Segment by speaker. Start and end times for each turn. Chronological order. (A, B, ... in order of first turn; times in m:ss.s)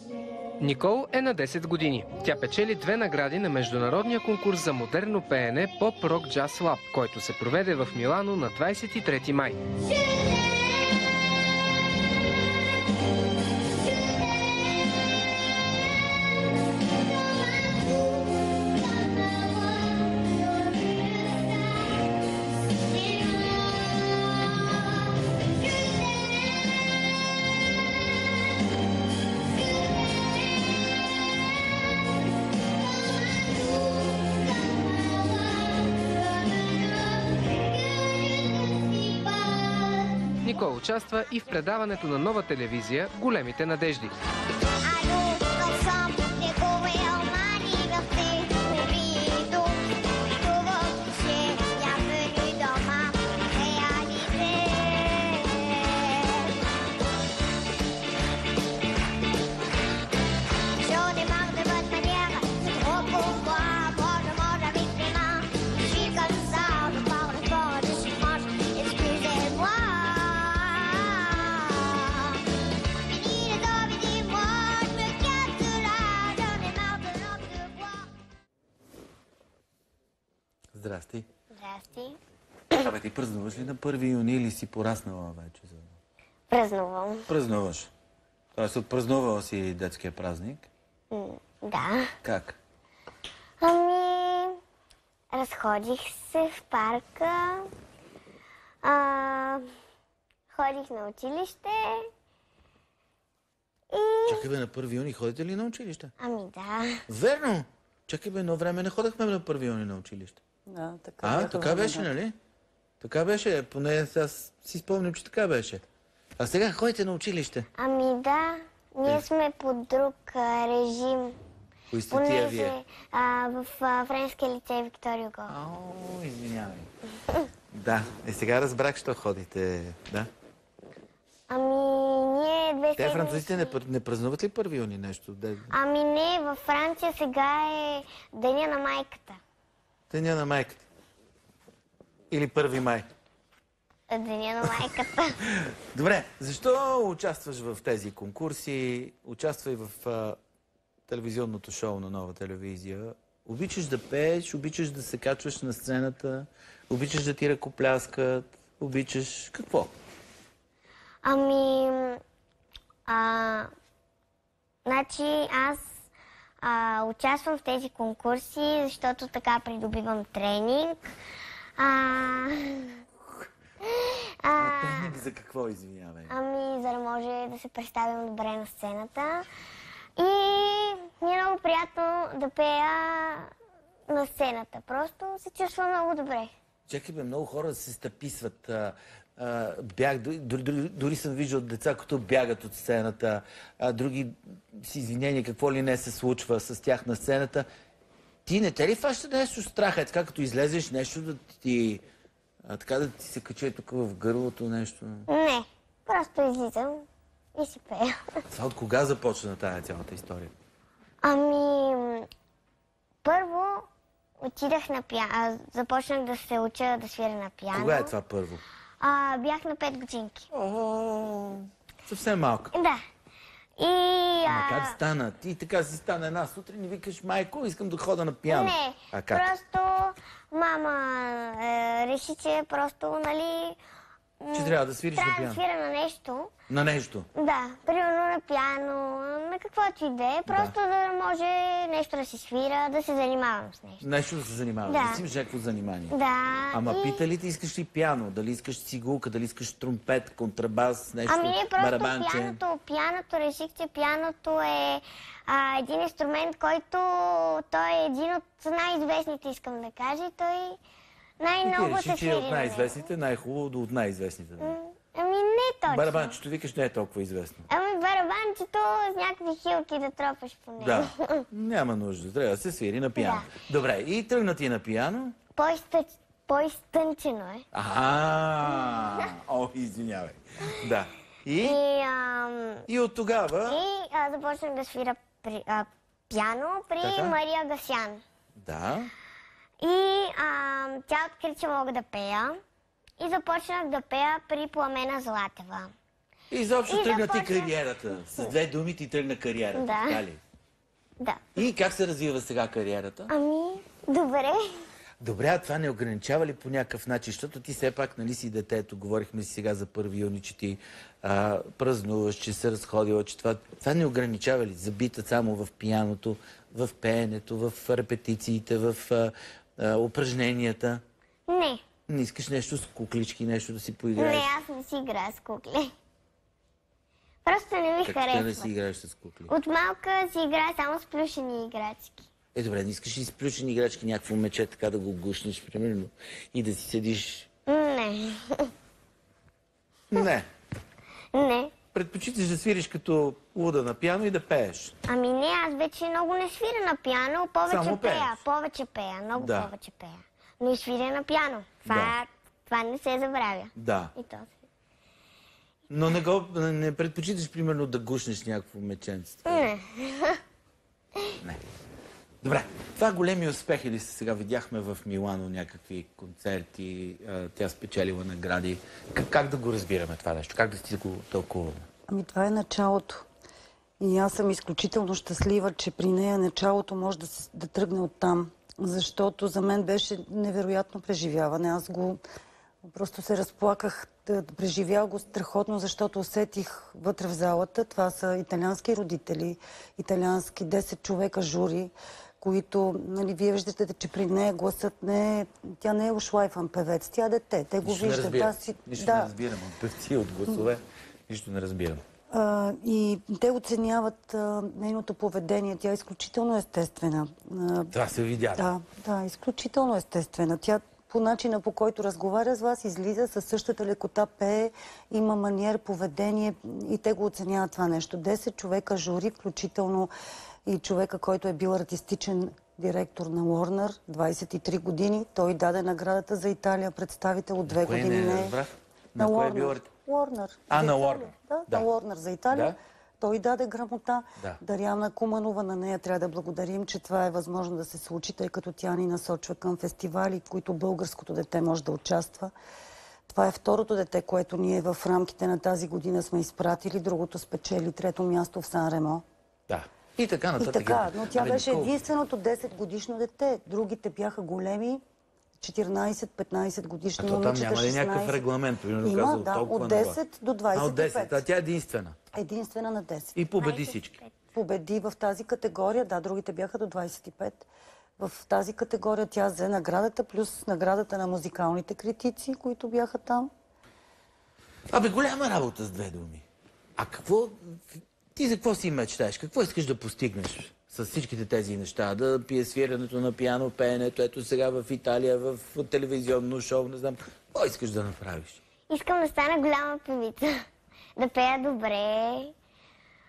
0:00.6-0:09.6 A
0:21.1-0:21.4 B
0:38.5-0:39.8 B
0:40.4-0:44.1 A
0:44.8-0:49.7 B
0:50.4-0:56.4 B
1:00.8-1:12.3 B
1:13.1-1:18.0 B
1:20.7-1:21.3 C
1:21.5-1:22.2 B
1:22.7-1:26.0 C
1:26.5-1:27.3 B
1:27.3-1:27.9 C
1:28.6-1:30.7 C
1:31.1-1:32.1 B
1:32.2-1:32.6 C
1:33.6-1:34.6 B
1:35.3-1:37.7 B
1:38.8-1:39.6 B
1:40.5-1:42.0 B
1:43.9-1:44.5 B
1:44.3-1:46.1 C
1:46.2-1:47.0 B
1:47.1-1:50.4 C
1:50.7-1:52.1 D
1:51.2-1:52.3 C
1:53.0-1:55.8 C
1:56.4-1:57.7 C
1:57.8-2:01.4 B
2:01.9-2:02.8 C
2:02.1-2:05.5 B
2:05.5-2:06.9 C
2:07.7-2:10.3 C
2:11.5-2:13.7 B
2:13.0-2:15.7 C
2:15.7-2:19.4 B
2:20.1-2:20.8 C
2:22.3-2:23.0 C
2:24.1-2:25.4 B
2:25.4-2:30.4 C
2:31.1-2:39.9 C
2:41.2-2:42.2 B
2:43.1-2:43.7 B
2:44.8-2:45.8 B
2:46.6-2:51.1 B
2:51.8-2:53.0 B
2:53.8-2:55.2 B
2:54.5-2:56.3 C
2:56.3-2:59.5 B
3:00.2-3:03.5 B
3:04.1-3:06.5 B
3:06.9-3:17.6 C
3:18.4-3:22.0 C
3:22.6-3:25.3 C
3:25.3-3:28.2 B
3:28.5-3:30.5 C
3:31.2-3:32.3 B
3:33.2-3:33.8 B
3:34.4-3:38.1 B
3:37.7-3:38.6 C
3:39.0-3:40.4 B
3:40.5-3:42.7 C
3:42.7-3:43.0 B
3:43.8-3:45.0 B
3:44.4-3:49.5 C
3:48.5-3:53.8 B
3:54.4-3:56.5 B
3:54.5-3:55.6 C
3:56.7-3:57.3 C
3:57.3-4:04.0 B
4:00.5-4:00.7 C
4:04.0-4:06.2 C
4:04.8-4:05.2 B
4:06.1-4:07.2 B
4:06.7-4:12.6 C
4:11.3-4:20.8 B
4:21.4-4:23.1 B
4:21.6-4:24.8 C
4:24.6-4:26.4 B
4:25.9-4:27.6 C
4:27.7-4:31.4 B
4:30.8-4:35.3 C
4:33.2-4:33.5 B
4:35.6-4:37.6 B
4:37.7-4:41.8 C
4:38.8-4:39.2 B
4:41.6-4:42.8 B
4:42.9-4:43.8 C
4:43.7-4:48.2 B
4:47.0-4:47.4 C
4:48.6-4:49.1 C
4:49.8-4:52.6 B
4:53.2-4:55.9 B
4:56.5-5:00.4 C
4:56.9-4:57.7 B
4:59.8-5:00.2 B
5:01.5-5:03.3 C
5:03.3-5:04.7 B
5:05.2-5:21.0 C
5:21.5-5:21.8 B
5:22.1-5:24.5 C
5:24.2-5:25.9 B
5:27.4-5:28.7 B
5:28.0-5:29.5 C
5:29.5-5:32.3 B
5:32.5-5:37.5 C
5:37.7-5:38.7 B
5:40.1-5:40.5 C
5:41.3-5:41.7 B
5:41.9-5:44.9 C
5:45.1-5:54.5 B
5:47.6-5:48.4 C
5:49.3-5:49.7 C
5:51.8-5:52.2 C
5:53.8-5:54.1 C
5:55.9-5:59.7 C
5:59.5-6:00.4 B
6:02.4-6:11.8 C
6:12.1-6:13.2 D
6:14.0-6:22.2 D
6:22.9-6:39.3 D
6:37.8-6:42.0 C
6:42.3-6:47.9 D
6:47.9-6:48.7 C
6:48.5-7:00.1 D
7:00.6-7:08.6 D
7:07.7-7:09.9 C
7:09.2-7:22.5 D
7:10.7-7:11.9 C
7:12.5-7:12.8 C
7:23.3-7:29.2 D
7:29.7-7:31.9 C
7:30.6-7:35.0 D
7:35.6-7:38.4 D
7:37.2-7:40.2 C
7:39.0-7:41.4 D
7:40.7-7:42.2 C
7:42.3-7:43.4 D
7:43.3-7:44.2 C
7:43.6-7:44.3 B
7:44.5-7:47.7 D
7:48.2-7:53.5 D
7:54.9-7:56.4 C
7:57.0-8:08.6 C
8:08.9-8:10.5 B
8:11.2-8:12.5 B